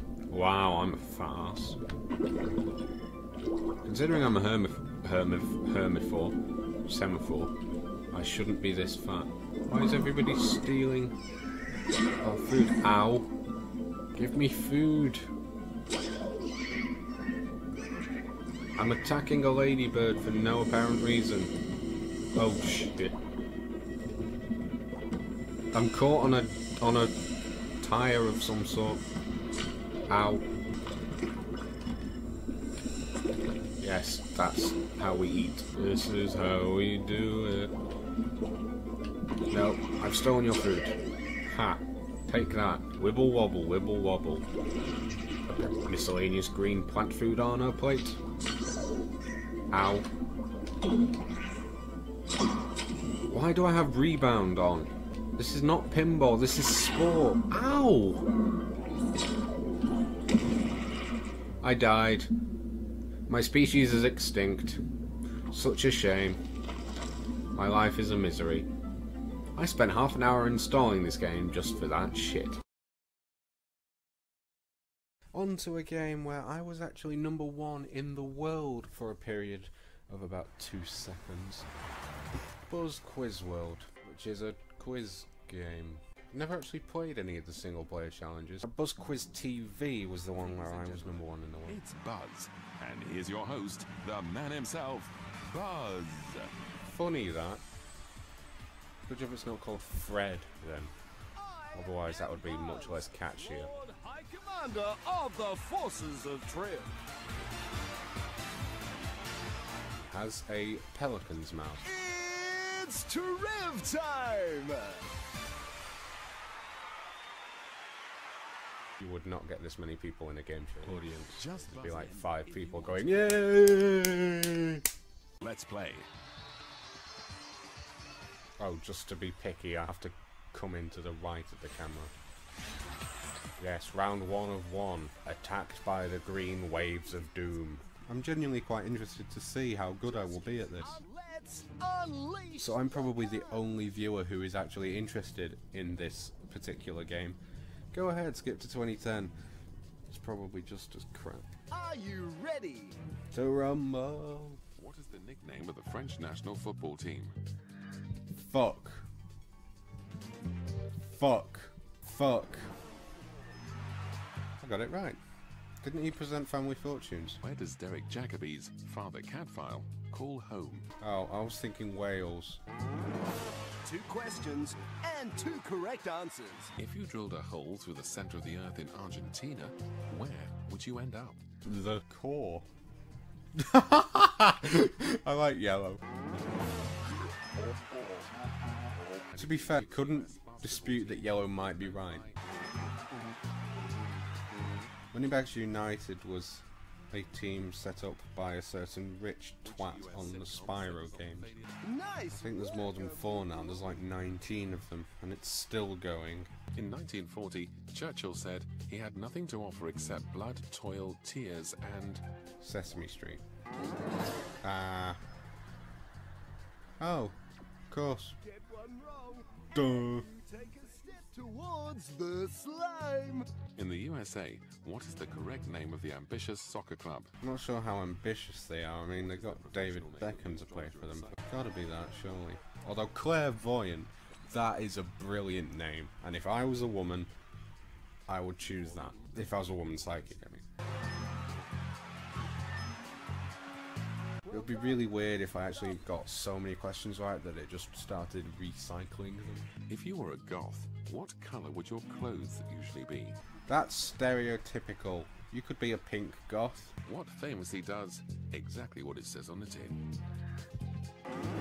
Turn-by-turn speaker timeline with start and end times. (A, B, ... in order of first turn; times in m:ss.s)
0:00.3-0:01.8 A
0:03.8-0:07.5 A
0:08.1-0:11.2 A
0:12.2-0:13.3 A
0:14.1-0:15.3 A
0:18.8-0:21.6 A
0:22.3-0:23.2 A
0:25.7-0:27.2 A
0:27.8-0:29.0 A
0:30.1-0:30.4 A
0:33.8-0:37.7 A
0:39.5-0:44.5 A
0:45.5-0:48.2 A
0:49.7-0:50.1 A
0:53.3-0:58.3 A
1:01.6-1:02.3 A
1:03.3-1:04.8 A
1:05.5-1:06.4 A
1:07.5-1:08.7 A
1:09.6-1:12.6 A
1:15.3-1:21.7 A
1:22.6-1:31.8 A
1:30.3-1:36.5 B
1:36.9-1:37.6 A
1:39.0-1:40.9 A
1:41.4-1:46.9 C
1:41.7-1:43.7 A
1:50.0-1:51.9 A
1:51.8-1:55.0 C
1:59.0-2:04.8 A
2:00.8-2:03.5 B
2:05.4-2:06.1 B
2:08.6-2:12.1 A
2:13.6-2:21.0 A
2:20.0-2:23.8 C
2:22.6-2:27.4 A
2:27.9-2:29.3 A
2:30.1-2:31.5 A
2:31.7-2:33.0 C
2:33.3-2:34.6 A
2:34.8-2:37.4 B
2:38.4-2:39.0 A
2:41.1-2:42.7 A
2:44.6-2:45.2 A
2:45.8-2:47.4 A
2:47.4-2:50.9 B
2:51.0-2:52.6 A
2:53.8-2:56.7 C
2:56.8-3:01.4 B
3:01.6-3:02.7 A
3:03.5-3:06.0 A
3:09.1-3:12.4 B
3:09.4-3:12.2 A
3:15.1-3:21.5 A
3:19.6-3:21.8 B
3:21.8-3:23.8 C
3:22.3-3:26.5 A
3:26.7-3:32.2 B
3:32.6-3:33.4 A
3:34.6-3:35.2 A
3:37.0-3:37.4 A
3:37.9-3:38.4 A
3:38.4-3:43.5 C
3:39.7-3:40.2 A
3:43.8-3:47.4 B
3:47.4-3:57.3 A
3:49.1-3:52.0 B
3:58.3-4:00.6 A
3:58.8-4:00.2 B
4:04.5-4:09.7 A
4:09.9-4:13.4 B
4:13.7-4:16.9 A
4:17.0-4:20.0 B